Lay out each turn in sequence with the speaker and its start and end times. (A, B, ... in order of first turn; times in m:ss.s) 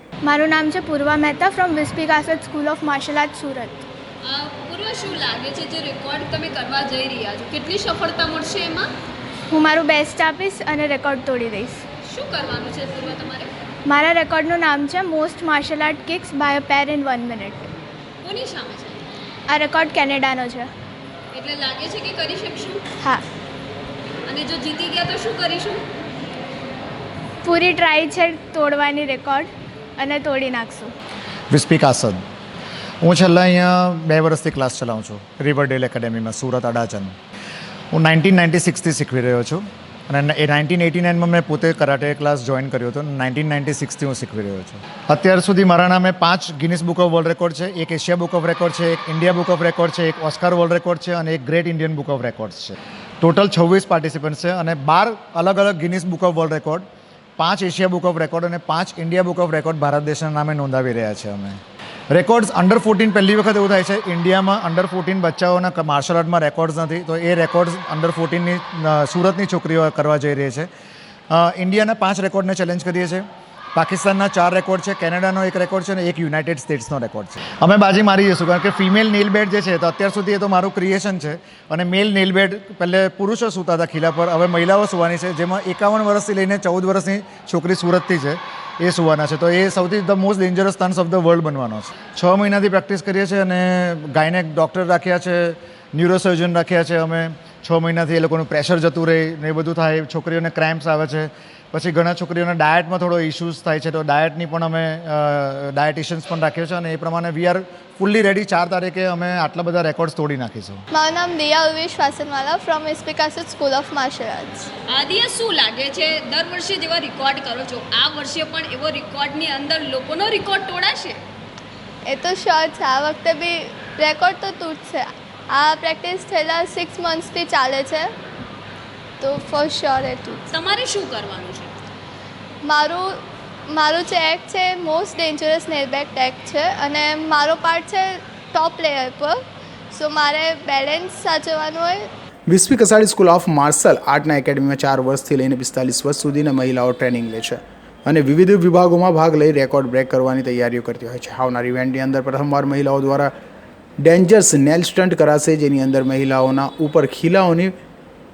0:00.2-0:03.8 A
0:04.2-0:08.9 B
0:09.5-0:11.8 A
0:12.0-0:13.5 B
0:13.8-0:17.7 A
0:18.2-0:19.1 B
0:19.5-0:20.7 A
0:21.3-0:22.8 B
0:24.2-0:25.8 B
0:27.4-0:30.9 A
0:31.5-0:32.2 C
0:33.0-0:37.2 C
0:37.9-0:56.8 C
0:57.4-1:01.6 C
1:02.1-1:10.7 C
1:11.3-1:50.8 C
1:50.9-1:54.7 D
1:54.9-2:01.2 B
2:02.0-2:08.1 D
2:09.2-2:10.4 D
2:10.5-2:11.8 B
2:12.6-2:13.1 D
2:13.7-2:19.4 D
2:19.9-2:22.1 D
2:22.5-2:33.3 E
2:34.0-2:37.7 E